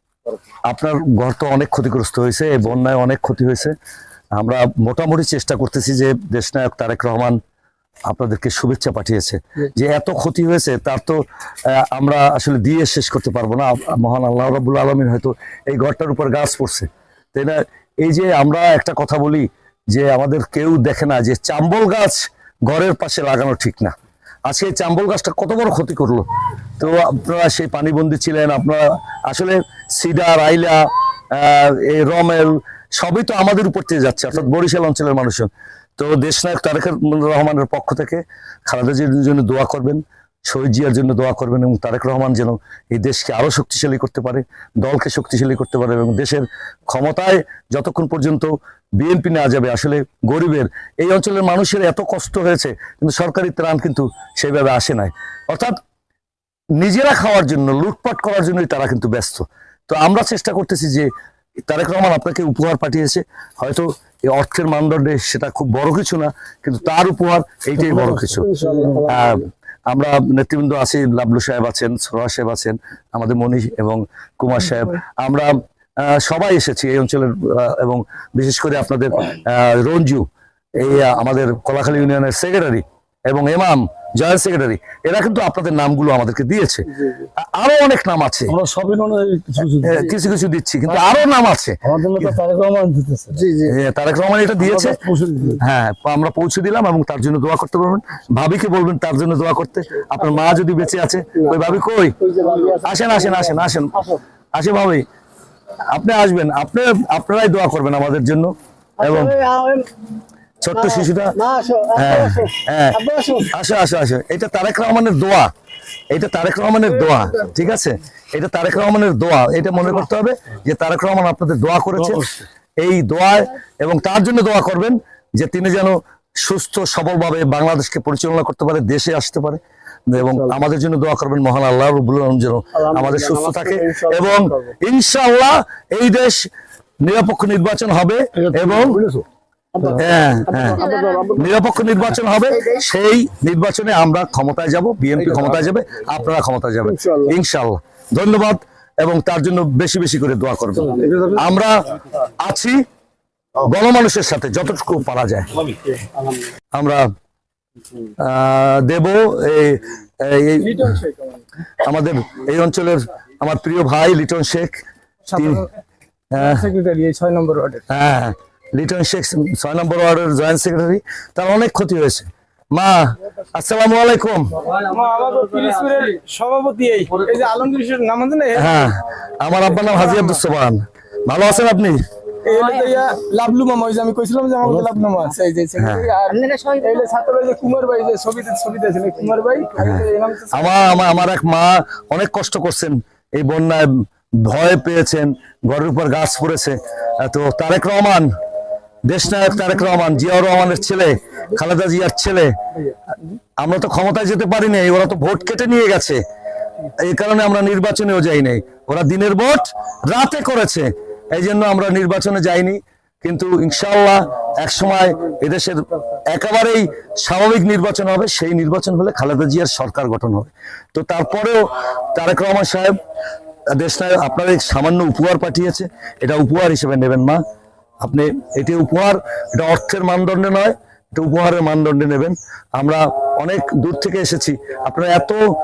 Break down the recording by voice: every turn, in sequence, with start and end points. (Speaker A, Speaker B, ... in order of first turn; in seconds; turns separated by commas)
Speaker A: 0.7-3.7, Speaker A: 4.4-7.4, Speaker A: 8.1-23.9, Speaker A: 24.5-26.2, Speaker A: 26.8-55.8, Speaker A: 56.8-61.1, Speaker A: 61.6-68.5, Speaker B: 67.9-69.4, Speaker C: 68.4-69.1, Speaker A: 69.1-88.5, Speaker C: 88.5-90.2, Speaker A: 89.6-92.4, Speaker C: 91.8-93.5, Speaker A: 93.6-95.0, Speaker C: 94.6-95.6, Speaker A: 95.6-102.2, Speaker B: 102.3-102.8, Speaker D: 102.4-102.8, Speaker A: 102.8-105.0, Speaker A: 105.9-109.4, Speaker D: 109.0-109.9, Speaker A: 110.6-111.4, Speaker D: 110.8-112.4, Speaker A: 111.9-115.5, Speaker D: 113.0-113.4, Speaker A: 116.1-136.4, Speaker C: 122.1-122.4, Speaker A: 137.0-139.0, Speaker C: 138.5-139.2, Speaker A: 139.9-152.8, Speaker B: 140.6-141.4, Speaker D: 141.0-141.3, Speaker B: 151.0-151.3, Speaker C: 151.0-151.4, Speaker A: 153.6-155.7, Speaker A: 156.7-157.1, Speaker A: 158.2-161.0, Speaker B: 160.6-161.4, Speaker A: 161.8-164.8, Speaker B: 165.3-165.7, Speaker A: 165.3-165.7, Speaker A: 166.3-166.7, Speaker B: 166.3-167.8, Speaker A: 167.9-174.6, Speaker B: 174.7-178.9, Speaker A: 178.5-182.0, Speaker B: 182.4-191.1, Speaker A: 185.8-186.1, Speaker D: 186.3-186.8, Speaker A: 189.8-198.3, Speaker A: 199.1-202.5, Speaker A: 203.6-206.2, Speaker A: 206.8-222.9, Speaker A: 223.7-227.4, Speaker A: 228.0-235.4